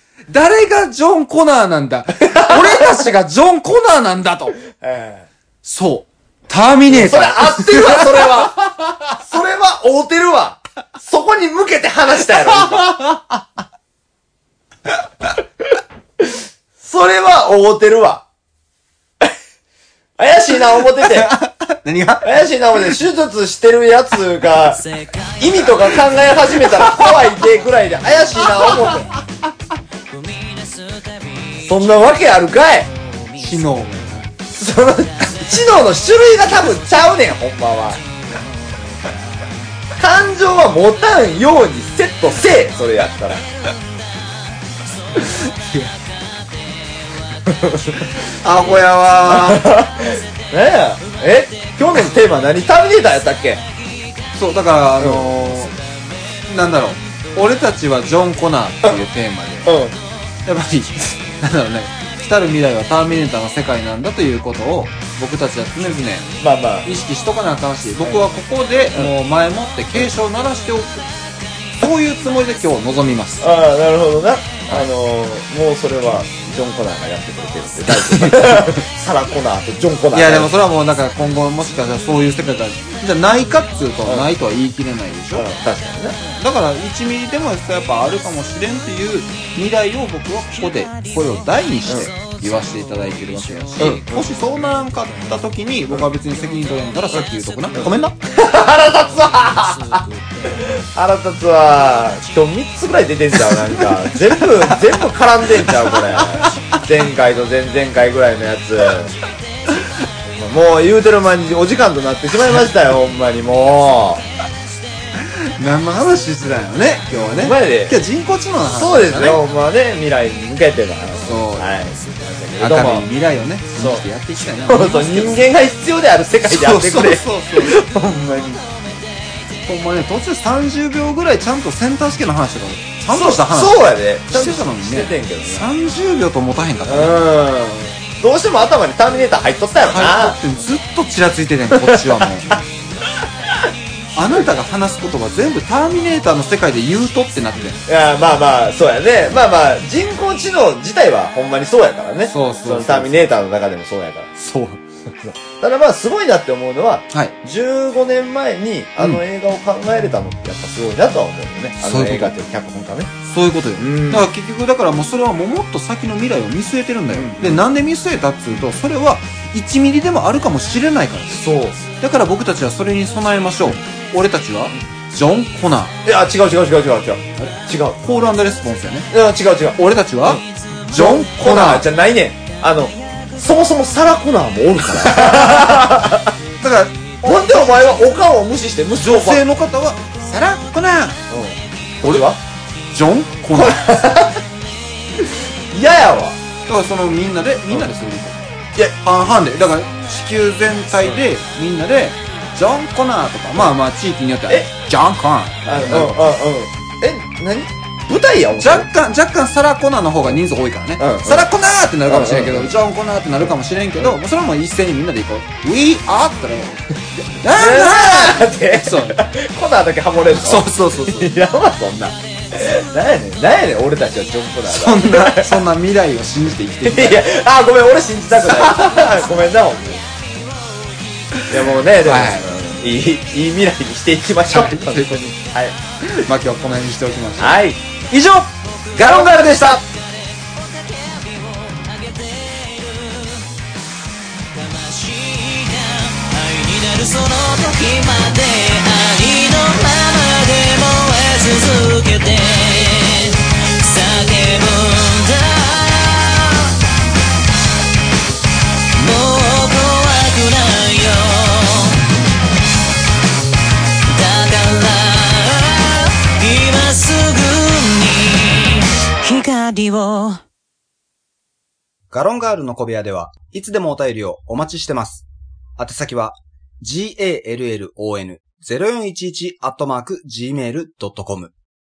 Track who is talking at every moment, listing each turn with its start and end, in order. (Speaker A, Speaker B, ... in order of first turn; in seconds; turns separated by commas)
Speaker A: 0.3-4.6, Speaker B: 2.2-3.1, Speaker B: 4.7-5.3, Speaker A: 5.6-8.8, Speaker B: 6.9-8.6, Speaker B: 9.2-13.0, Speaker A: 12.3-13.4, Speaker B: 16.2-18.2, Speaker B: 20.2-21.3, Speaker A: 20.8-23.0, Speaker B: 22.2-24.8, Speaker C: 24.6-29.1, Speaker B: 25.4-29.1, Speaker A: 28.4-29.1, Speaker C: 30.1-34.3, Speaker B: 31.6-32.9, Speaker A: 33.4-34.3, Speaker B: 34.6-38.0, Speaker C: 35.1-39.8, Speaker B: 40.0-43.4, Speaker C: 43.4-46.1, Speaker A: 45.2-45.9, Speaker B: 47.5-48.1, Speaker A: 48.3-49.7, Speaker B: 49.2-53.6, Speaker C: 50.0-52.1, Speaker C: 53.6-54.6, Speaker A: 54.4-55.8, Speaker B: 55.0-55.4, Speaker C: 55.5-56.4, Speaker A: 56.5-59.8, Speaker B: 59.6-60.0, Speaker C: 59.8-60.1, Speaker A: 60.5-71.1, Speaker B: 66.4-66.9, Speaker A: 71.8-73.5, Speaker B: 73.4-80.5, Speaker A: 77.9-78.8, Speaker A: 80.1-85.5, Speaker B: 84.0-84.3, Speaker B: 85.3-86.2, Speaker A: 86.3-98.2, Speaker C: 90.4-95.5, Speaker B: 93.8-94.3, Speaker C: 96.3-100.8, Speaker B: 97.8-109.1, Speaker A: 103.5-105.0, Speaker A: 105.6-106.9, Speaker C: 109.3-109.7, Speaker B: 110.3-114.2, Speaker A: 115.2-119.4, Speaker B: 117.1-118.0, Speaker B: 118.7-123.1, Speaker A: 121.2-121.8, Speaker A: 122.6-125.5, Speaker B: 123.8-124.0, Speaker B: 124.7-128.6, Speaker A: 126.4-127.8, Speaker C: 127.8-129.9, Speaker A: 129.7-137.2, Speaker B: 133.1-135.7, Speaker B: 136.8-140.4, Speaker A: 139.9-142.6, Speaker B: 141.7-142.5, Speaker A: 144.2-147.8, Speaker B: 147.9-154.3, Speaker A: 152.2-153.2, Speaker A: 154.4-154.8, Speaker B: 155.1-163.1, Speaker A: 161.8-162.3, Speaker A: 163.2-175.9, Speaker B: 163.8-164.3, Speaker B: 167.1-167.6, Speaker B: 171.3-171.8, Speaker B: 176.1-178.0, Speaker A: 177.4-179.1, Speaker B: 179.1-186.3, Speaker A: 179.8-181.9, Speaker A: 185.3-185.7, Speaker A: 186.6-186.9, Speaker B: 187.2-189.4, Speaker C: 187.6-188.1, Speaker A: 189.0-191.2, Speaker B: 191.3-192.4, Speaker A: 192.0-192.3, Speaker A: 192.9-194.0, Speaker B: 193.5-194.4, Speaker B: 195.2-196.4, Speaker A: 196.7-198.4, Speaker A: 198.9-206.2, Speaker B: 205.7-208.9, Speaker A: 208.6-219.2, Speaker B: 211.0-211.5, Speaker B: 212.1-212.7, Speaker B: 217.5-225.6, Speaker A: 220.3-221.3, Speaker A: 224.7-227.3, Speaker B: 226.8-230.0, Speaker A: 228.4-229.3, Speaker C: 228.7-231.4, Speaker A: 231.4-232.5, Speaker B: 231.5-235.8, Speaker A: 234.5-235.4, Speaker A: 236.0-239.8, Speaker B: 237.4-237.8, Speaker C: 238.6-243.6, Speaker B: 238.9-239.8, Speaker C: 244.4-256.8, Speaker C: 259.0-262.0, Speaker C: 264.1-270.4, Speaker A: 272.1-275.3, Speaker A: 275.8-281.5